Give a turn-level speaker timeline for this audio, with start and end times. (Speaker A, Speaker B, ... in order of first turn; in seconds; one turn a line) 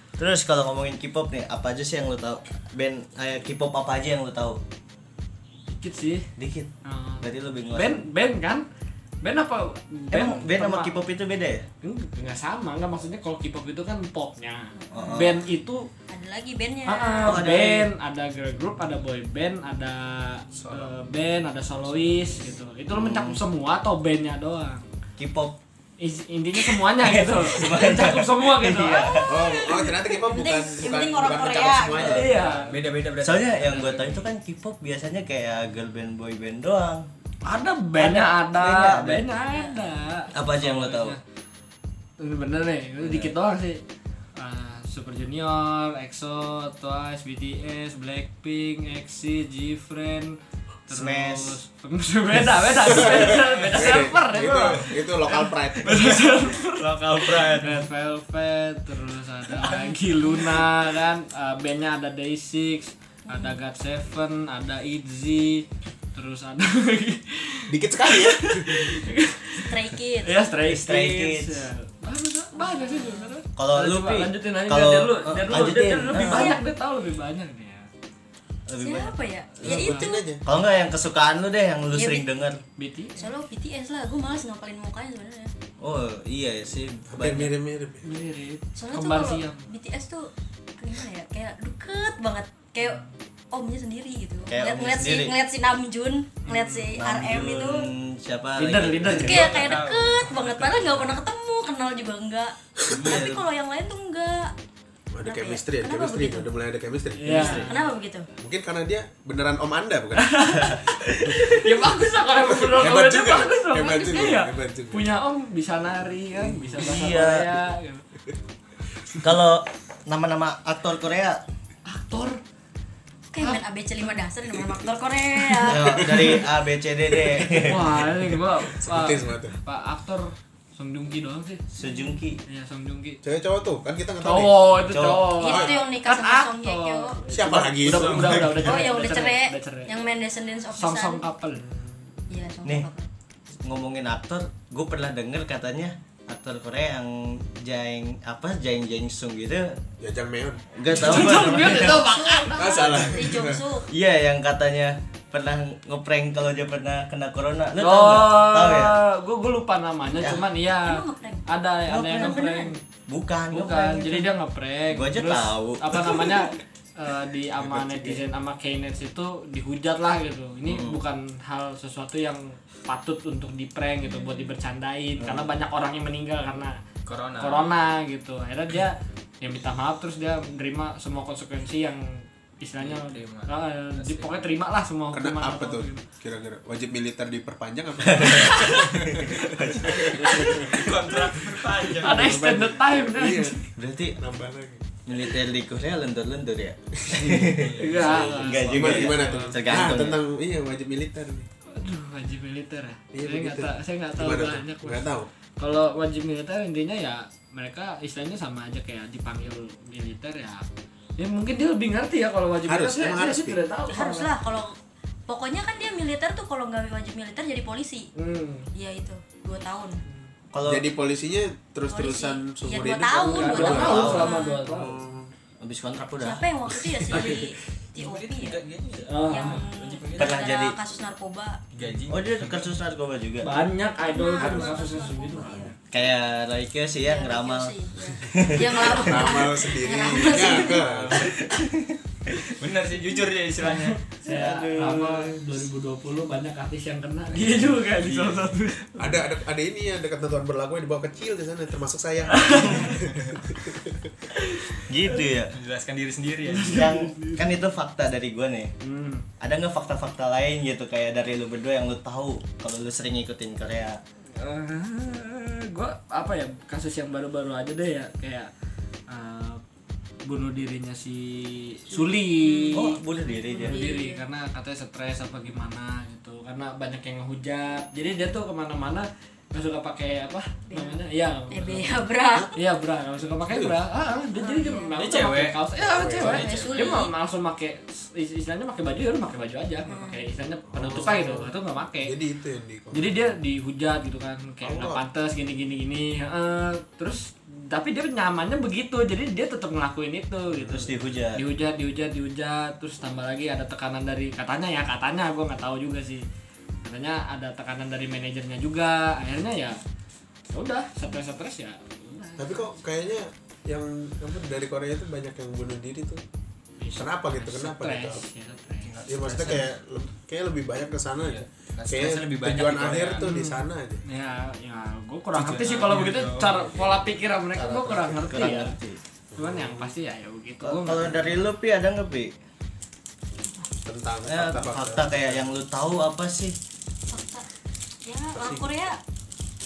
Speaker A: 0.2-4.6
Speaker B: 5.7-6.3
Speaker A: 6.4-8.0
Speaker B: 6.8-8.6
Speaker B: 9.2-10.9
Speaker A: 10.1-11.7
Speaker B: 11.8-15.9
Speaker C: 14.8-15.1
Speaker A: 14.9-15.3
Speaker C: 16.1-17.4
Speaker B: 16.9-24.8
Speaker A: 17.2-17.9
Speaker D: 20.5-20.9
Speaker A: 22.9-23.4
Speaker A: 25.2-25.6
Speaker B: 26.0-29.2
Speaker A: 26.7-29.6
Speaker C: 29.1-32.2
Speaker D: 29.2-32.5
Speaker E: 32.0-34.2
Speaker B: 32.0-32.7
Speaker A: 33.2-37.0
Speaker B: 37.5-41.2
Speaker A: 38.0-39.3
Speaker C: 39.5-39.9
Speaker A: 40.3-41.2
Speaker B: 42.2-43.8
Speaker A: 43.0-43.3
Speaker B: 44.4-50.4
Speaker B: 50.9-77.9
Speaker A: 50.9-51.6
Speaker D: 52.8-56.2
Speaker E: 53.3-53.8
Speaker E: 55.9-57.9
Speaker C: 59.6-60.6
Speaker C: 63.3-63.6
Speaker D: 67.7-69.0
Speaker C: 69.6-70.4
Speaker A: 70.7-71.7
Speaker C: 72.5-73.3
Speaker A: 73.5-76.6
Speaker C: 76.1-76.6
Speaker A: 78.7-82.6
Speaker C: 78.8-80.2
Speaker B: 79.6-80.1
Speaker D: 79.6-80.4
Speaker C: 81.9-82.3
Speaker B: 82.8-83.3
Speaker C: 83.2-85.5
Speaker A: 85.8-87.5
Speaker D: 87.1-88.1
Speaker B: 88.0-89.7
Speaker C: 88.8-97.9
Speaker A: 94.5-95.3
Speaker B: 96.5-97.0
Speaker A: 97.0-99.7
Speaker B: 98.6-99.6
Speaker C: 99.1-104.5
Speaker E: 99.2-101.1
Speaker D: 102.8-103.1
Speaker A: 102.9-103.4
Speaker D: 105.1-107.6
Speaker C: 105.2-106.5
Speaker B: 107.2-107.9
Speaker A: 107.3-107.7
Speaker C: 107.3-108.3
Speaker D: 108.4-115.1
Speaker B: 110.2-118.0
Speaker A: 110.7-111.4
Speaker D: 116.4-116.8
Speaker A: 116.8-117.5
Speaker A: 119.2-121.4
Speaker B: 121.9-122.4
Speaker C: 123.3-126.1
Speaker B: 123.4-123.6
Speaker A: 125.6-128.0
Speaker D: 126.0-126.3
Speaker D: 127.1-129.6
Speaker B: 127.6-131.6
Speaker A: 131.7-132.4
Speaker C: 131.8-132.2
Speaker B: 132.4-133.2
Speaker D: 133.2-134.9
Speaker B: 134.2-139.9
Speaker A: 134.9-135.3
Speaker C: 135.4-137.2
Speaker D: 135.4-135.8
Speaker D: 137.3-138.6
Speaker E: 137.5-138.7
Speaker C: 138.6-141.2
Speaker B: 140.7-141.6
Speaker D: 141.6-142.2
Speaker C: 142.3-143.1
Speaker A: 143.6-149.8
Speaker D: 150.0-150.7
Speaker A: 150.7-152.1
Speaker B: 150.9-153.1
Speaker C: 151.2-153.9
Speaker D: 152.5-153.6
Speaker A: 153.9-159.0
Speaker B: 157.8-162.8
Speaker A: 160.2-160.4
Speaker C: 160.8-162.7
Speaker A: 161.8-162.4
Speaker A: 163.1-164.3
Speaker B: 163.5-176.8
Speaker A: 164.9-166.1
Speaker A: 167.6-168.2
Speaker A: 170.7-171.0
Speaker C: 174.0-174.5
Speaker A: 175.2-175.5
Speaker E: 177.1-177.7
Speaker B: 177.4-186.0
Speaker E: 182.8-184.4
Speaker D: 185.1-193.6
Speaker A: 188.1-190.8
Speaker B: 188.6-188.9
Speaker B: 190.2-190.6
Speaker E: 190.4-192.3
Speaker B: 192.0-193.7
Speaker A: 193.8-194.2
Speaker D: 194.2-195.0
Speaker A: 195.1-200.2
Speaker D: 196.9-197.4
Speaker E: 197.1-199.6
Speaker B: 197.8-199.5
Speaker D: 198.6-201.5
Speaker B: 201.7-210.6
Speaker D: 203.1-205.3
Speaker B: 211.2-214.3
Speaker D: 212.7-213.6
Speaker C: 213.9-214.7
Speaker C: 215.3-218.1
Speaker B: 218.2-218.7
Speaker C: 218.7-220.0
Speaker A: 220.5-220.8
Speaker D: 220.6-225.3
Speaker C: 221.8-224.6
Speaker B: 223.2-225.0
Speaker A: 223.6-224.4
Speaker A: 225.6-226.4
Speaker C: 226.2-228.6
Speaker D: 226.7-227.5
Speaker E: 227.0-227.4
Speaker E: 227.9-230.3
Speaker B: 229.0-229.6
Speaker C: 229.2-231.6
Speaker A: 230.2-230.7
Speaker E: 231.7-232.7
Speaker A: 232.1-233.5
Speaker B: 233.4-235.7
Speaker C: 234.1-235.7
Speaker A: 235.9-237.7
Speaker C: 237.0-240.8
Speaker A: 238.3-238.9
Speaker D: 238.3-241.4
Speaker E: 240.8-241.4
Speaker A: 241.2-242.4
Speaker E: 242.6-244.0
Speaker B: 243.6-249.2
Speaker A: 244.2-245.4
Speaker D: 249.0-254.1
Speaker B: 252.3-252.9
Speaker E: 253.1-253.3
Speaker B: 254.3-255.2
Speaker A: 254.8-255.5
Speaker E: 255.5-256.9
Speaker B: 256.5-257.5
Speaker A: 256.7-258.7
Speaker B: 258.8-259.2
Speaker A: 259.4-264.0
Speaker B: 264.3-268.5
Speaker B: 269.1-269.6
Speaker B: 270.2-273.0
Speaker C: 271.9-274.2
Speaker A: 272.7-273.9
Speaker B: 273.5-282.0
Speaker C: 280.7-282.5
Speaker B: 282.5-292.1
Speaker D: 283.4-283.8
Speaker C: 284.3-284.9
Speaker E: 284.9-285.6
Speaker D: 285.8-286.4
Speaker E: 286.1-287.0
Speaker C: 286.2-287.1
Speaker C: 289.9-290.2
Speaker D: 290.7-293.2
Speaker B: 292.9-306.2
Speaker D: 294.6-295.0
Speaker D: 300.6-300.9
Speaker A: 300.7-301.4
Speaker B: 306.8-309.8
Speaker B: 310.5-312.7
Speaker D: 312.4-316.2
Speaker B: 316.8-319.0
Speaker D: 316.9-318.2
Speaker E: 318.8-319.7
Speaker D: 319.1-324.0
Speaker E: 321.2-323.3
Speaker B: 323.2-328.7
Speaker E: 325.3-326.6
Speaker D: 326.5-328.6
Speaker A: 328.3-329.0
Speaker D: 329.3-329.9
Speaker B: 329.4-331.3
Speaker A: 330.6-332.3
Speaker D: 333.8-335.5
Speaker A: 334.2-336.6
Speaker C: 337.1-337.4
Speaker C: 338.0-339.0
Speaker D: 338.3-338.6